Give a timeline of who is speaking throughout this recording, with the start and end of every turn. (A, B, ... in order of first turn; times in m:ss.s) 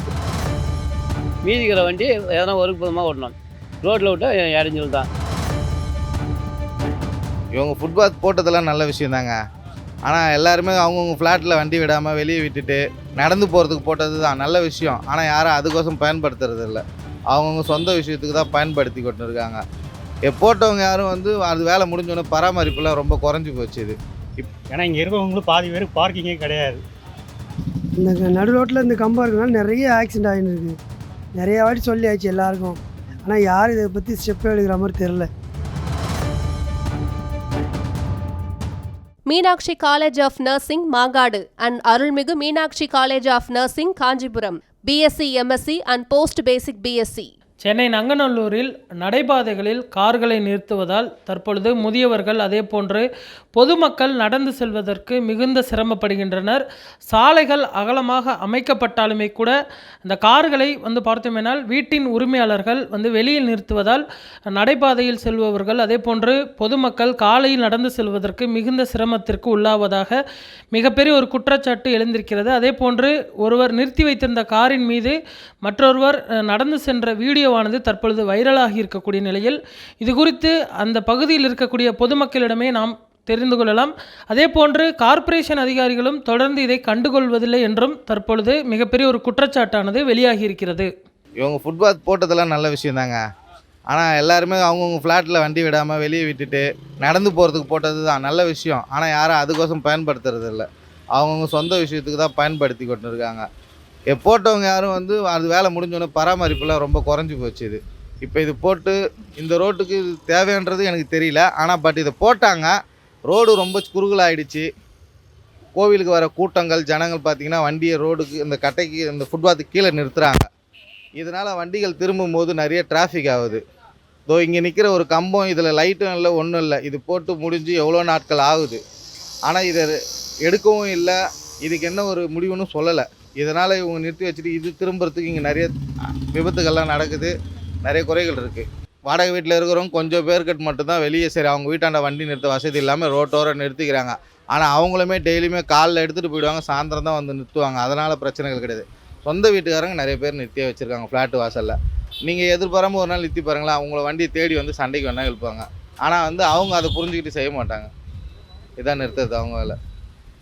0:01.4-0:05.1 A
0:07.5-0:09.3 B
0:10.0-0:19.6 B
0:20.2-0:24.5 B
0:24.7-0:26.8 C
0:28.0-0:30.8 D
0:31.3-0:35.3 D
0:39.3-0:47.3 E
0:47.6-1:10.2 F
1:10.7-1:30.9 F
1:31.4-1:33.2 B
1:33.9-1:43.4 B
1:44.1-1:52.7 B
1:53.3-1:54.6 B
1:55.8-2:00.5 B
2:01.2-2:03.6 B
2:04.3-2:08.8 B
2:09.4-2:15.7 B
2:16.3-2:17.3 B
2:17.8-2:37.9 B
2:38.8-2:39.8 B